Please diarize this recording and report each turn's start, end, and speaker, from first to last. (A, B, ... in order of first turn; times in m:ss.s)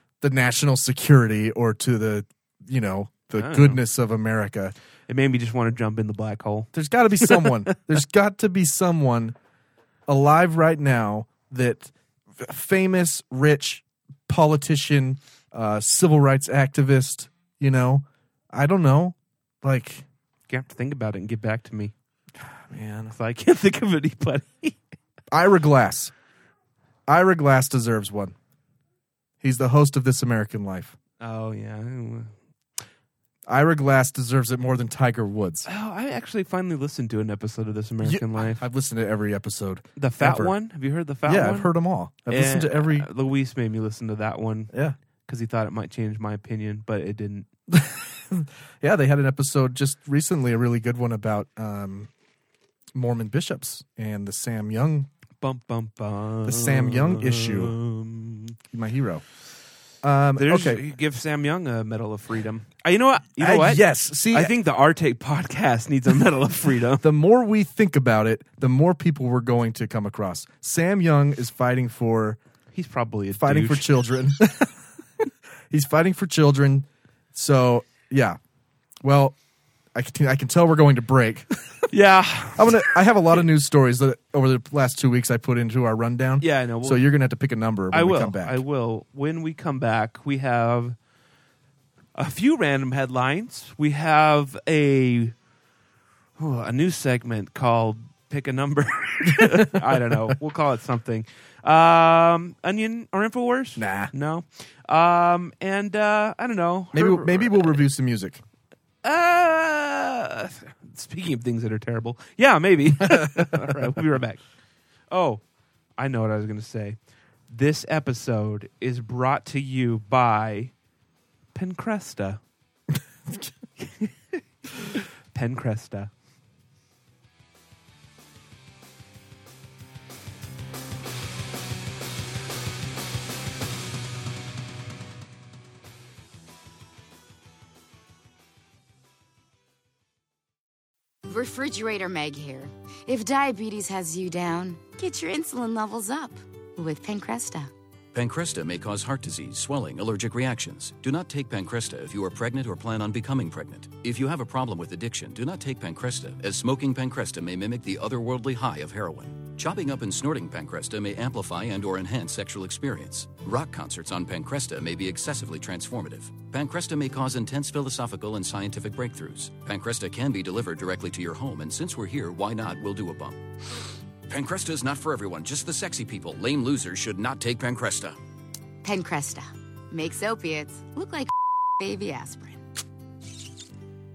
0:00.2-0:04.7 A
0:03.4-0:03.8 B
0:05.1-0:06.7 B
0:06.7-0:09.4 A
0:07.2-0:07.7 B
0:10.1-0:20.1 A
0:20.5-0:21.9 B
0:22.4-0:23.1 A
0:23.1-0:24.8 B
0:25.3-0:26.1 A
0:27.1-0:28.3 A
0:29.4-0:31.0 A
0:31.2-0:32.3 B
0:33.4-0:35.7 A
0:35.6-0:38.6 B
0:38.0-0:40.5 A
0:40.0-0:41.7 B
0:41.2-0:43.1 A
0:42.3-0:44.7 B
0:44.7-0:45.0 A
0:45.2-0:47.5 B
0:47.7-0:52.1 A
0:52.9-0:55.1 A
0:55.4-0:58.6 B
0:56.4-0:57.8 A
0:58.7-0:59.2 A
1:00.0-1:00.8 A
1:00.4-1:07.1 B
1:03.4-1:04.5 A
1:07.0-1:12.4 A
1:12.7-1:13.9 B
1:13.3-1:14.8 A
1:15.7-1:18.4 A
1:19.0-1:19.4 A
1:19.9-1:21.9 A
1:21.9-1:22.9 B
1:22.6-1:28.6 A
1:26.4-1:27.1 B
1:27.9-1:31.0 B
1:32.1-1:35.3 B
1:36.4-1:47.8 B
1:39.3-1:40.3 A
1:43.8-1:44.1 A
1:46.9-1:48.4 A
1:49.0-1:54.4 B
1:53.0-1:53.8 A
1:55.1-1:55.4 B
1:56.0-1:57.0 B
1:57.5-2:00.7 B
2:01.5-2:02.4 B
2:03.8-2:04.4 B
2:05.3-2:06.1 B
2:21.3-2:27.7 C
2:28.1-2:53.4 D
2:54.3-2:58.2 D
2:58.8-3:02.6 C